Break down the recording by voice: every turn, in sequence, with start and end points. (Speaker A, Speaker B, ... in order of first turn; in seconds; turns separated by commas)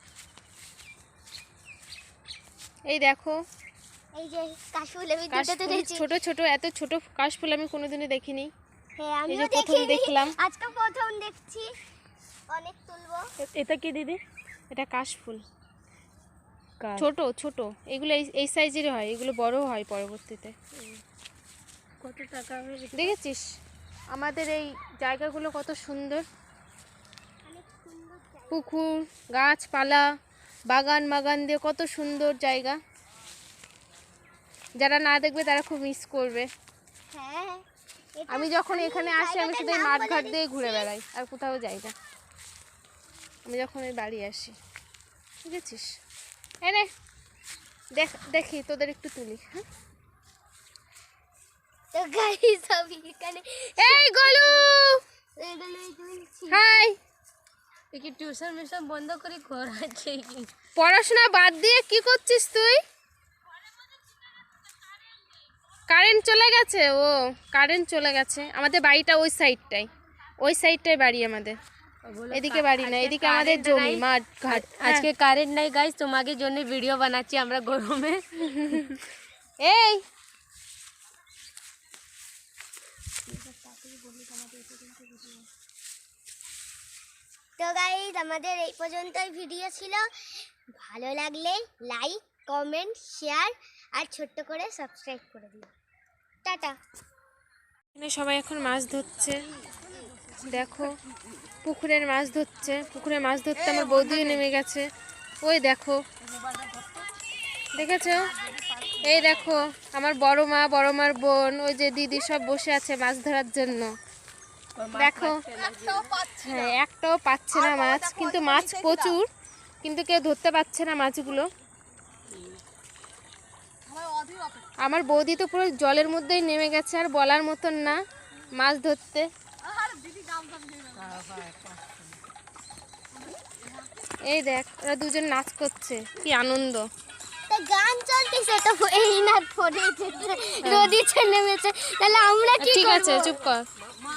Speaker A: 2.9-3.4, Speaker B: 4.2-6.1, Speaker A: 5.3-8.5, Speaker B: 9.0-11.7, Speaker A: 9.3-10.3, Speaker B: 12.5-13.3, Speaker A: 13.4-14.2, Speaker A: 14.7-15.4, Speaker C: 16.8-17.1, Speaker A: 17.0-20.6, Speaker C: 22.0-23.2, Speaker A: 22.9-23.5, Speaker A: 24.1-26.2, Speaker B: 27.4-28.9, Speaker A: 28.5-30.1, Speaker A: 30.7-32.8, Speaker A: 34.8-36.5, Speaker B: 37.1-37.6, Speaker B: 38.2-40.9, Speaker A: 38.3-41.9, Speaker A: 43.5-44.6, Speaker A: 45.5-46.0, Speaker A: 46.6-46.9, Speaker A: 48.0-49.6, Speaker B: 51.9-54.7, Speaker A: 53.8-55.0, Speaker B: 55.4-56.6, Speaker A: 56.5-57.0, Speaker C: 57.9-60.5, Speaker A: 60.8-62.8, Speaker A: 65.9-69.9, Speaker A: 70.4-71.6, Speaker C: 72.1-78.9, Speaker A: 72.3-75.1, Speaker A: 78.6-78.9, Speaker A: 79.6-80.0, Speaker C: 83.3-85.4, Speaker B: 87.6-90.1, Speaker B: 90.8-95.7, Speaker B: 96.4-96.8, Speaker A: 98.0-99.4, Speaker A: 100.4-101.0, Speaker A: 101.6-104.9, Speaker C: 103.8-104.4, Speaker A: 105.4-106.0, Speaker C: 106.5-106.9, Speaker A: 107.8-108.3, Speaker C: 108.7-109.5, Speaker A: 109.0-114.0, Speaker C: 114.8-116.7, Speaker A: 114.9-115.5, Speaker A: 116.3-119.3, Speaker C: 117.8-119.1, Speaker A: 119.8-121.5, Speaker A: 124.8-128.0, Speaker A: 128.6-129.3, Speaker C: 131.0-131.6, Speaker A: 134.3-136.8, Speaker B: 137.5-143.4, Speaker A: 140.6-141.0, Speaker A: 142.6-143.7